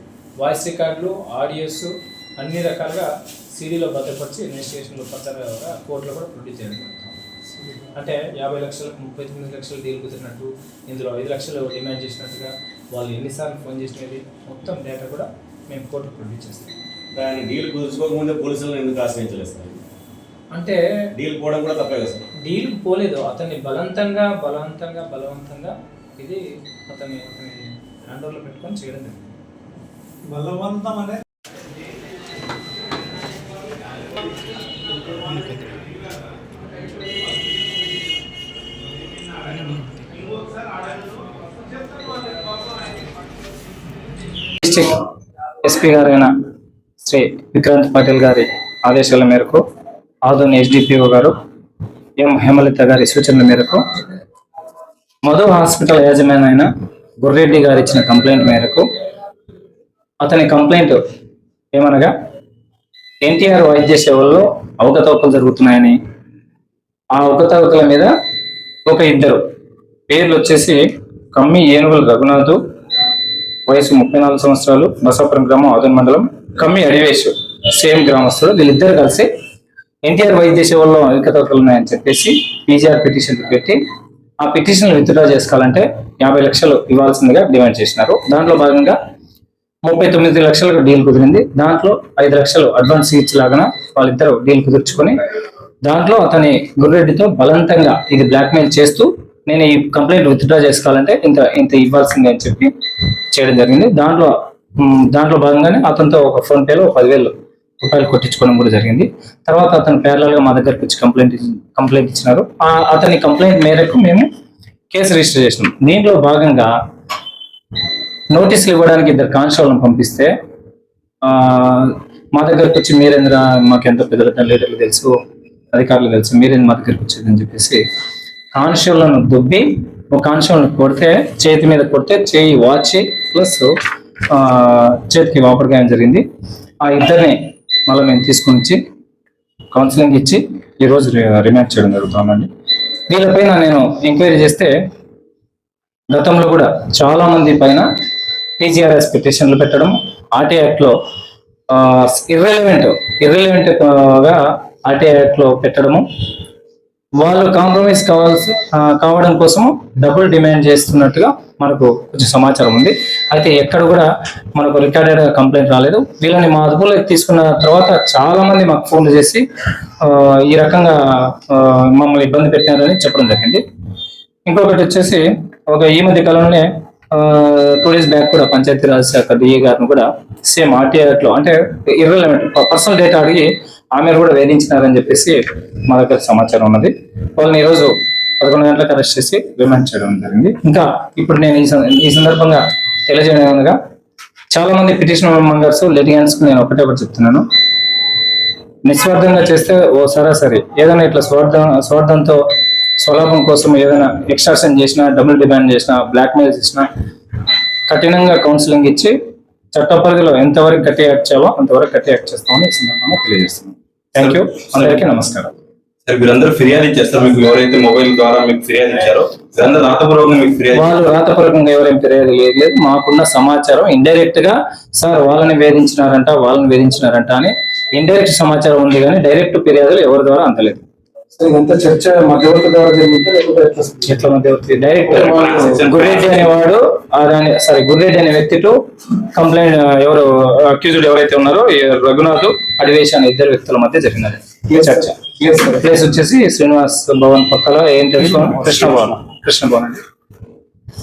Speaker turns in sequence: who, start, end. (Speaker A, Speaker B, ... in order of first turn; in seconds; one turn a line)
Speaker A: 0.4-7.2
Speaker A: 7.8-16.8
Speaker B: 17.1-19.9
Speaker A: 20.5-20.8
Speaker B: 21.1-22.2
Speaker A: 22.4-29.3
Speaker C: 30.3-31.2
Speaker A: 44.5-45.0
Speaker A: 45.6-46.3
Speaker A: 47.0-49.6
Speaker A: 50.2-51.3
Speaker A: 52.2-53.8
Speaker A: 55.2-56.7
Speaker A: 57.2-58.8
Speaker A: 60.2-61.0
Speaker A: 61.7-62.1
Speaker A: 63.2-66.0
Speaker A: 67.1-68.1
Speaker A: 68.8-69.4
Speaker A: 70.1-72.6
Speaker A: 73.7-79.3
Speaker A: 80.1-83.8
Speaker A: 84.4-89.0
Speaker A: 89.8-95.2
Speaker A: 95.8-102.7
Speaker A: 103.3-114.3
Speaker A: 114.9-116.7
Speaker A: 118.3-120.3
Speaker A: 121.2-125.1
Speaker A: 125.7-127.8
Speaker A: 128.5-133.7
Speaker A: 134.3-136.2
Speaker A: 136.8-138.8
Speaker A: 139.7-142.5
Speaker A: 143.1-144.7
Speaker A: 146.1-147.8
Speaker A: 148.6-150.9
Speaker A: 151.7-156.0
Speaker A: 157.2-169.4
Speaker A: 170.0-173.6
Speaker A: 174.5-193.7
Speaker A: 194.5-197.4
Speaker A: 198.8-202.4
Speaker A: 203.0-206.9
Speaker A: 207.9-209.1
Speaker A: 209.7-215.5
Speaker D: 214.2-215.0
Speaker D: 216.1-220.9
Speaker A: 220.7-230.8
Speaker C: 231.3-234.0
Speaker A: 234.0-250.0
Speaker D: 235.1-236.5